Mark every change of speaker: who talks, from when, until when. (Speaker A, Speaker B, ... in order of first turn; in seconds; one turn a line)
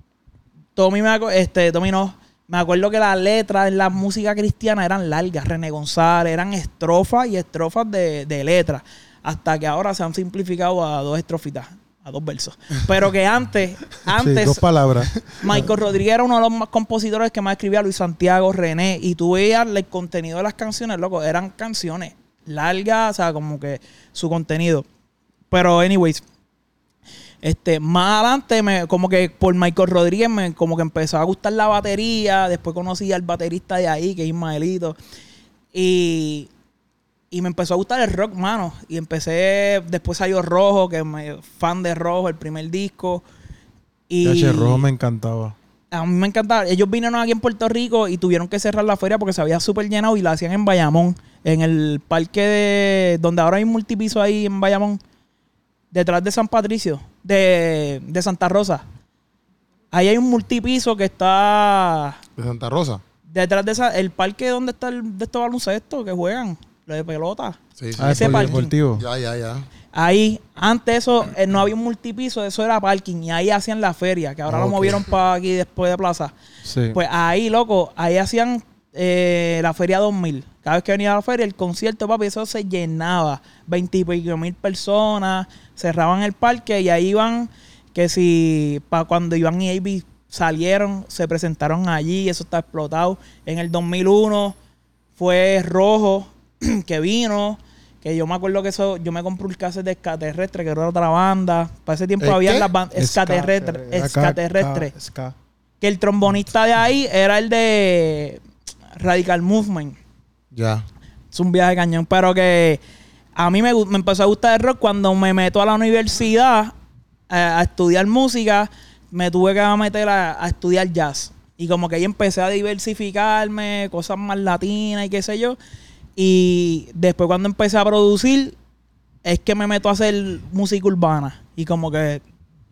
Speaker A: 0.8-14.7
Speaker B: 14.1-15.6
Speaker A: 15.3-24.9
Speaker A: 25.5-26.2
Speaker A: 27.4-35.0
Speaker A: 35.7-36.5
Speaker A: 37.3-43.2
Speaker A: 44.1-44.9
Speaker B: 44.2-45.5
Speaker A: 45.9-55.0
Speaker A: 55.9-58.8
Speaker A: 59.9-62.2
Speaker C: 62.4-63.0
Speaker A: 63.3-68.7
Speaker C: 67.8-69.7
Speaker B: 68.0-69.0
Speaker A: 69.9-76.3
Speaker B: 74.5-75.0
Speaker B: 76.6-77.0
Speaker A: 76.9-94.6
Speaker A: 95.2-104.9
Speaker C: 102.2-102.7
Speaker B: 103.0-105.3
Speaker A: 105.8-108.4
Speaker A: 109.0-110.0
Speaker C: 110.5-110.8
Speaker A: 111.3-112.8
Speaker A: 113.4-116.7
Speaker A: 117.3-125.6
Speaker A: 126.2-128.6
Speaker A: 129.2-132.2